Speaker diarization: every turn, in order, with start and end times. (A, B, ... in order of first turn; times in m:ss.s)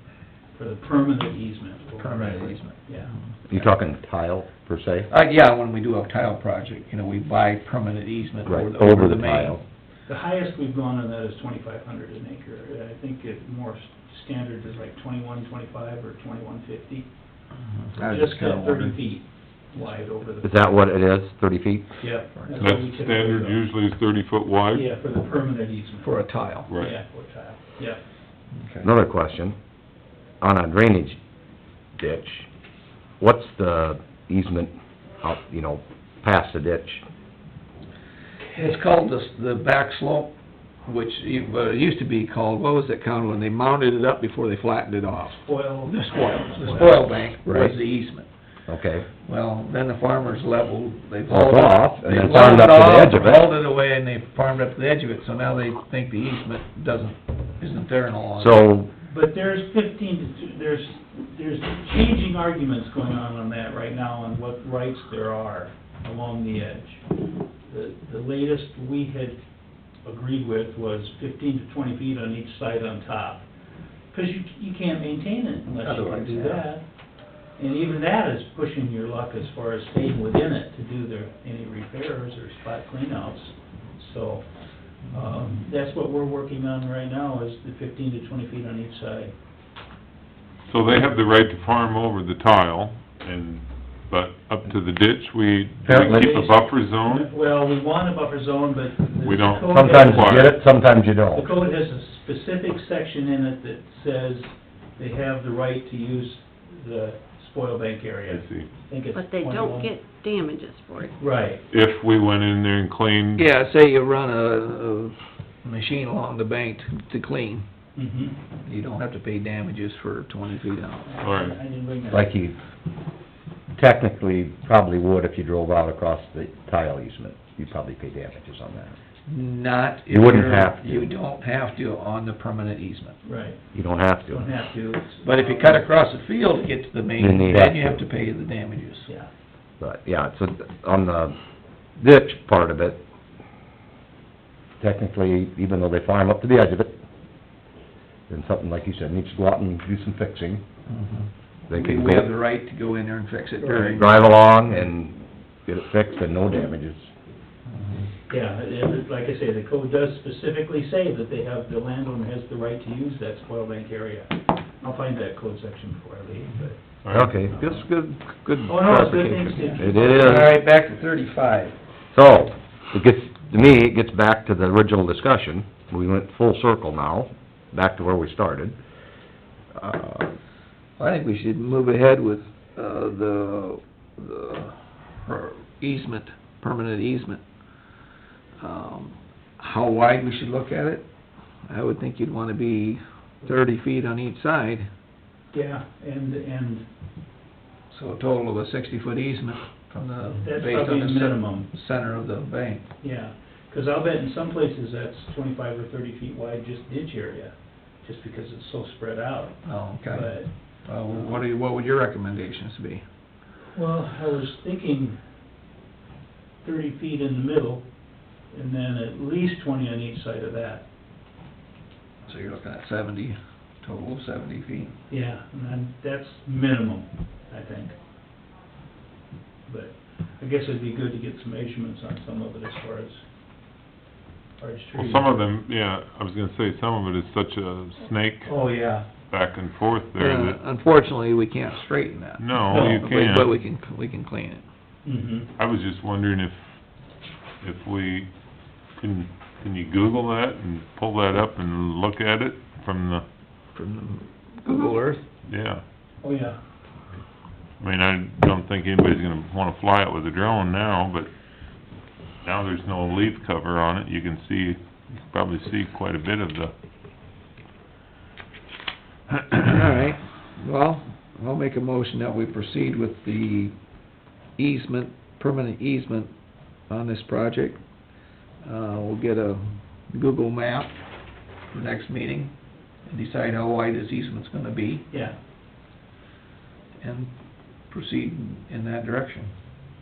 0:00.5-0:03.1 A
0:02.0-0:02.8 B
0:03.3-0:03.7 B
0:03.5-0:05.1 C
0:05.1-0:09.6 B
0:08.4-0:09.6 C
0:10.1-0:17.1 A
0:17.7-0:19.0 B
0:18.0-0:20.7 A
0:20.4-0:22.0 C
0:22.0-0:23.6 A
0:22.4-0:22.6 B
0:22.6-0:24.9 D
0:24.7-0:28.0 A
0:26.0-0:26.7 B
0:26.7-0:27.0 D
0:28.5-0:28.9 B
0:28.8-0:29.6 C
0:30.4-0:31.2 C
0:32.0-0:32.5 C
0:33.2-0:37.0 C
0:38.5-0:38.8 A
0:38.5-0:48.3 B
0:45.2-0:47.7 A
0:48.7-0:49.1 C
0:49.2-0:58.6 B
0:51.3-0:53.5 C
0:58.4-0:58.9 C
0:59.0-1:07.0 A
1:07.6-1:09.4 A
1:10.0-1:13.5 A
1:14.1-1:16.9 A
1:15.8-1:16.6 B
1:17.6-1:29.3 A
1:30.7-1:37.3 D
1:35.8-1:36.4 C
1:35.9-1:40.6 A
1:39.2-1:40.5 D
1:39.7-1:41.5 C
1:41.3-1:50.0 A
1:48.3-1:48.7 D
1:49.1-1:51.1 E
1:51.2-1:51.6 A
1:51.7-1:53.5 D
1:53.4-1:57.7 B
1:58.0-1:58.4 A
1:58.6-2:01.1 B
2:01.1-2:02.3 A
2:01.2-2:01.6 D
2:02.1-2:02.6 C
2:03.7-2:09.0 C
2:09.3-2:13.2 B
2:10.1-2:11.1 C
2:13.2-2:13.6 A
2:13.7-2:14.5 C
2:14.3-2:15.9 A
2:15.2-2:19.1 B
2:17.2-2:18.0 C
2:19.8-2:21.4 C
2:22.0-2:23.0 C
2:24.8-2:27.0 C
2:28.3-2:30.6 C
2:30.9-2:34.2 B
2:31.7-2:32.3 C
2:33.6-2:34.1 A
2:33.8-2:37.1 C
2:37.7-2:38.1 B
2:38.3-2:46.8 A
2:47.0-2:47.4 D
2:47.1-2:47.6 C
2:47.5-2:51.8 B
2:47.6-2:47.8 A
2:48.7-2:50.3 A
2:49.7-2:50.5 C
2:52.1-2:58.8 C
2:59.7-3:00.3 C
3:01.0-3:07.4 B
3:08.6-3:11.1 B
3:11.7-3:14.9 B
3:15.5-3:16.9 A
3:17.9-3:22.9 B
3:20.4-3:21.7 A
3:23.0-3:31.3 A
3:29.6-3:33.0 B
3:33.7-3:35.2 A
3:36.6-3:37.9 A
3:38.5-3:40.8 A
3:42.3-3:45.0 B
3:45.1-3:48.0 A
3:49.7-3:53.2 A
3:54.6-3:55.3 A
3:55.0-4:00.6 D
3:58.5-3:59.1 A
4:00.2-4:04.6 B
4:02.4-4:03.5 D
4:02.7-4:03.1 A
4:05.0-4:05.5 A
4:05.6-4:06.6 D
4:07.6-4:08.3 D
4:08.9-4:13.2 D
4:13.7-4:15.3 B
4:15.5-4:15.8 D
4:16.2-4:16.6 A
4:17.8-4:21.3 D
4:22.4-4:26.7 D
4:29.4-4:33.8 B
4:34.6-4:36.3 B
4:36.9-4:37.8 B
4:38.6-4:41.0 B
4:41.6-4:45.1 B
4:45.1-4:45.4 A
4:47.0-4:49.6 B